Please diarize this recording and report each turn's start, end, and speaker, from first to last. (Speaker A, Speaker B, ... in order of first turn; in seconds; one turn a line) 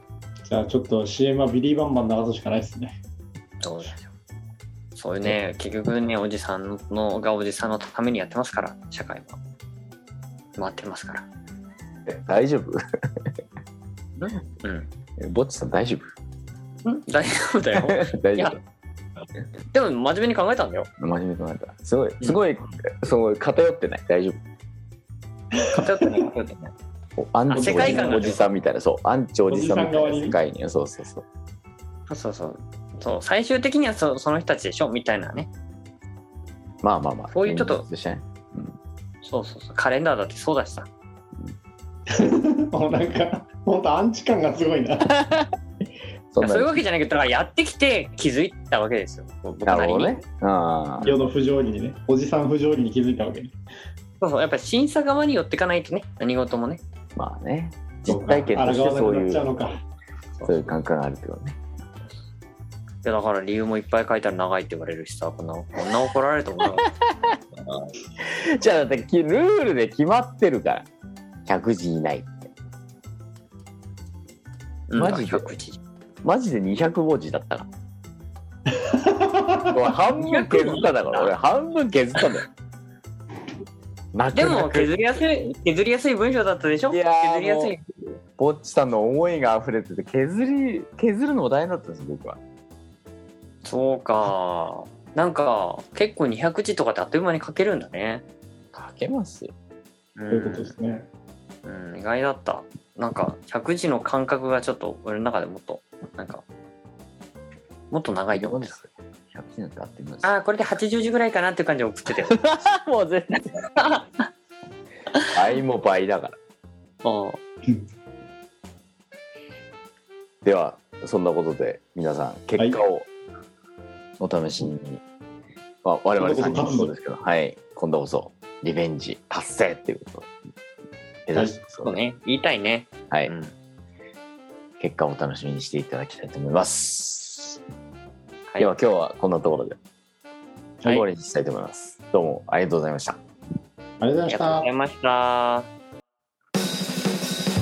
Speaker A: 0.4-3.0
Speaker B: 3.6-4.1
Speaker B: 4.9-9.4
Speaker B: 10.6-11.2
Speaker C: 12.1-13.3
Speaker B: 14.2-14.9
Speaker C: 15.2-16.1
Speaker B: 16.8-18.6
Speaker C: 17.8-18.6
Speaker B: 19.7-20.9
Speaker C: 21.0-24.4
Speaker B: 25.7-26.7
Speaker A: 25.7-26.0
Speaker C: 27.2-31.2
Speaker B: 27.5-28.4
Speaker A: 27.5-28.4
Speaker A: 29.5-30.4
Speaker B: 32.1-35.5
Speaker C: 36.8-38.8
Speaker B: 37.3-37.9
Speaker B: 39.2-40.9
Speaker A: 42.1-45.1
Speaker C: 46.3-46.8
Speaker B: 46.4-50.2
Speaker C: 49.6-51.1
Speaker A: 51.0-53.6
Speaker B: 54.2-56.8
Speaker C: 57.1-59.5
Speaker A: 58.1-59.8
Speaker B: 60.4-60.8
Speaker C: 60.4-61.6
Speaker B: 63.0-66.9
Speaker C: 66.6-67.4
Speaker B: 67.6-67.9
Speaker C: 68.2-70.8
Speaker C: 71.5-72.5
Speaker B: 74.9-75.8
Speaker C: 74.9-75.5
Speaker C: 76.2-77.7
Speaker A: 78.7-79.8
Speaker C: 79.7-82.5
Speaker B: 80.2-81.3
Speaker C: 84.1-84.9
Speaker B: 84.3-88.0
Speaker C: 86.9-87.7
Speaker C: 88.4-92.4
Speaker B: 93.6-98.2
Speaker C: 98.7-99.5
Speaker B: 100.2-100.7
Speaker A: 100.3-101.1
Speaker B: 101.6-106.4
Speaker B: 107.9-108.8
Speaker C: 108.3-110.3
Speaker B: 110.2-112.4
Speaker C: 112.2-113.5
Speaker B: 113.8-114.2
Speaker C: 115.3-116.3
Speaker B: 117.0-117.4
Speaker C: 120.4-123.1
Speaker A: 122.6-122.8
Speaker C: 124.2-125.0
Speaker C: 125.8-130.3
Speaker A: 126.2-126.9
Speaker C: 131.2-132.0
Speaker B: 131.8-133.5
Speaker C: 134.8-137.6
Speaker C: 138.6-139.8
Speaker C: 140.9-143.2
Speaker A: 144.0-144.7
Speaker B: 144.3-145.7